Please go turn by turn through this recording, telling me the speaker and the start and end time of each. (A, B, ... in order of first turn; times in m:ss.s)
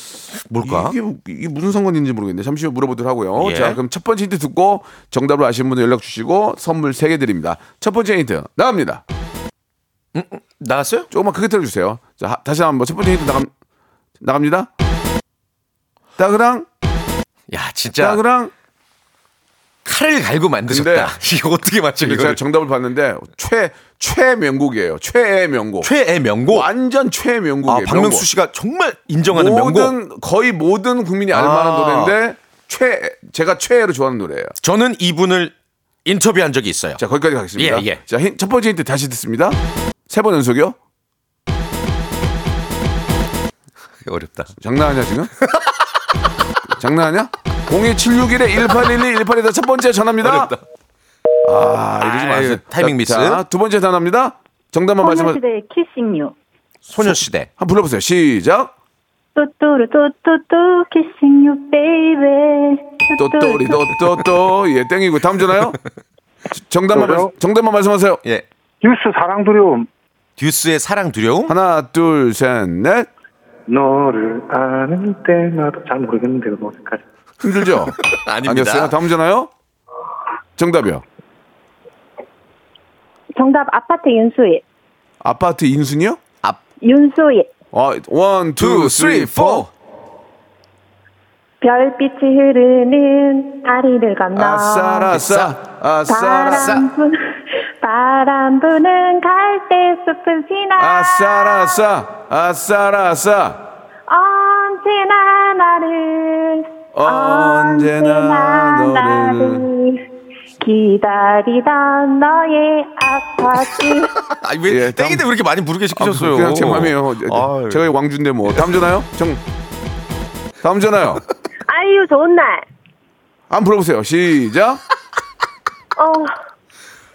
0:00.4-0:00.9 A
0:00.6-0:09.0 B
0:03.4-0:03.8 A
0:10.1-0:11.1 A
0:11.1-0:13.5 B
0:14.2-0:14.7 B
0:16.2-0:16.7 B
0:17.5-0:18.2 A
0:18.0-0:18.5 B
0:19.8-0:22.4 A
0:20.7-0:21.1 B
0:22.0-0:25.9 B
0:25.8-0:26.7 A
0:26.5-0:28.3 B
0:27.7-0:29.9 A
0:29.2-0:34.5 B
0:31.3-0:32.1 A
0:34.6-0:35.5 A
0:36.0-0:37.0 A
0:37.0-0:40.8 B
0:37.6-0:38.0 A
0:44.0-0:44.5 A
0:44.6-0:45.3 B
0:45.4-0:45.7 A
0:46.7-0:50.5 B
0:50.2-0:50.6 A
0:51.4-0:55.4 B
0:52.0-0:53.4 A
0:55.0-0:56.3 C
0:56.9-0:57.5 A
0:57.0-0:58.7 B
0:59.3-1:04.0 C
1:03.2-1:05.8 B
1:06.5-1:08.2 B
1:06.9-1:07.3 D
1:08.8-1:09.9 D
1:10.4-1:11.5 A
1:11.5-1:13.1 B
1:13.7-1:17.0 D
1:17.4-1:19.5 B
1:18.0-1:19.0 A
1:20.6-1:21.0 B
1:23.4-1:24.6 C
1:25.2-1:26.2 B
1:26.8-1:27.5 C
1:27.7-1:29.7 B
1:28.6-1:29.7 A
1:31.6-1:35.2 C
1:34.3-1:36.8 B
1:35.1-1:35.5 A
1:36.1-1:41.8 C
1:36.5-1:36.8 A
1:40.8-1:43.6 B
1:44.1-1:50.0 C
1:46.9-1:49.7 B
1:50.6-1:54.1 C
1:54.3-1:57.9 A
1:54.7-1:55.3 B
1:55.9-1:59.4 B
2:00.6-2:01.2 B
2:01.7-2:02.6 C
2:03.5-2:04.8 B
2:06.0-2:06.3 C